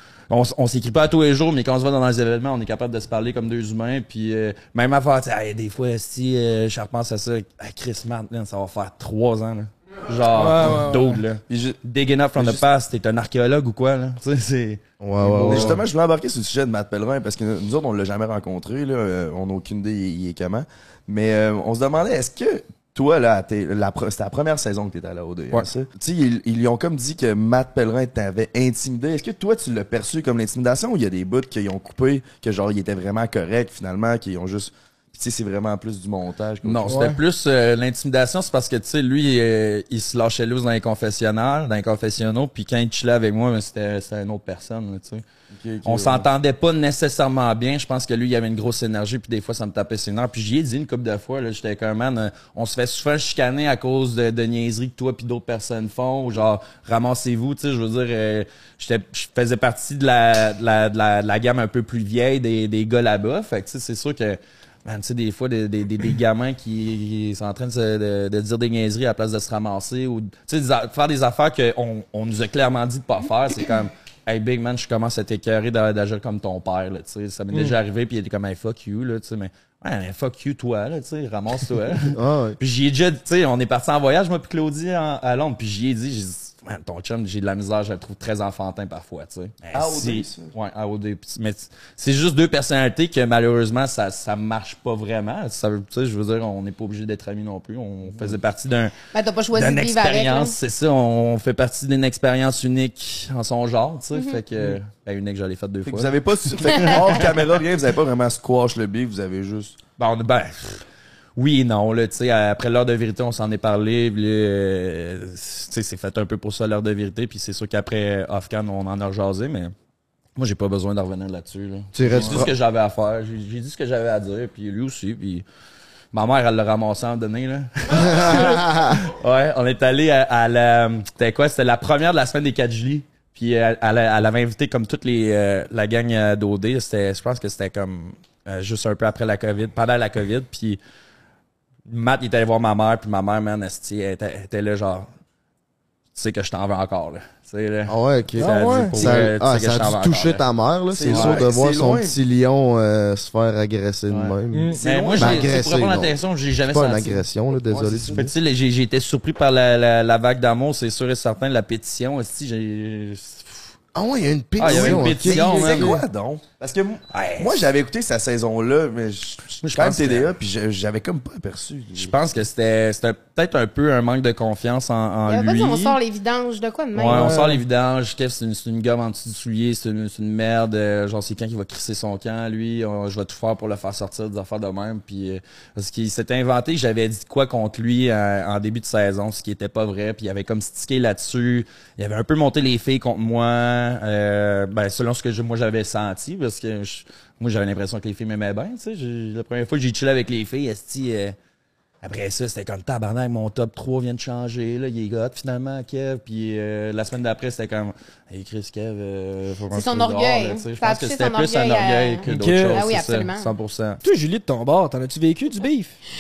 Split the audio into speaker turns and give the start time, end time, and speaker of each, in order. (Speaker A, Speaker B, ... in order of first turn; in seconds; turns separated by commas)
Speaker A: 0.3-15.8, Speaker B: 10.3-11.2, Speaker C: 11.5-11.8, Speaker C: 12.3-12.6, Speaker D: 15.0-15.8, Speaker C: 15.4-37.0, Speaker A: 36.6-45.2, Speaker B: 36.9-37.2, Speaker C: 45.5-46.3, Speaker A: 45.8-98.9, Speaker D: 82.1-82.6, Speaker C: 89.7-90.5, Speaker C: 98.1-98.4, Speaker E: 99.1-100.5, Speaker A: 99.5-106.1, Speaker E: 104.1-104.4, Speaker C: 105.8-109.8, Speaker A: 110.0-110.8, Speaker A: 111.3-119.7, Speaker A: 120.4-125.4, Speaker D: 121.9-122.5, Speaker C: 122.1-122.4, Speaker A: 126.1-140.8, Speaker D: 127.9-129.0, Speaker A: 141.8-145.1, Speaker A: 146.1-150.4, Speaker D: 147.9-158.3, Speaker B: 148.4-149.1, Speaker C: 150.9-152.2, Speaker A: 151.0-151.4, Speaker A: 154.1-157.2, Speaker B: 154.5-154.8, Speaker C: 154.8-155.6, Speaker C: 157.7-158.3, Speaker A: 158.1-163.6, Speaker D: 163.9-166.0, Speaker A: 164.6-165.9, Speaker C: 164.6-172.1, Speaker A: 167.1-167.7, Speaker A: 169.6-170.3, Speaker A: 172.0-176.0, Speaker E: 175.3-177.4, Speaker A: 176.9-201.3, Speaker B: 177.1-177.6, Speaker A: 202.0-214.0, Speaker E: 209.7-213.5, Speaker B: 212.2-212.9, Speaker B: 214.0-215.9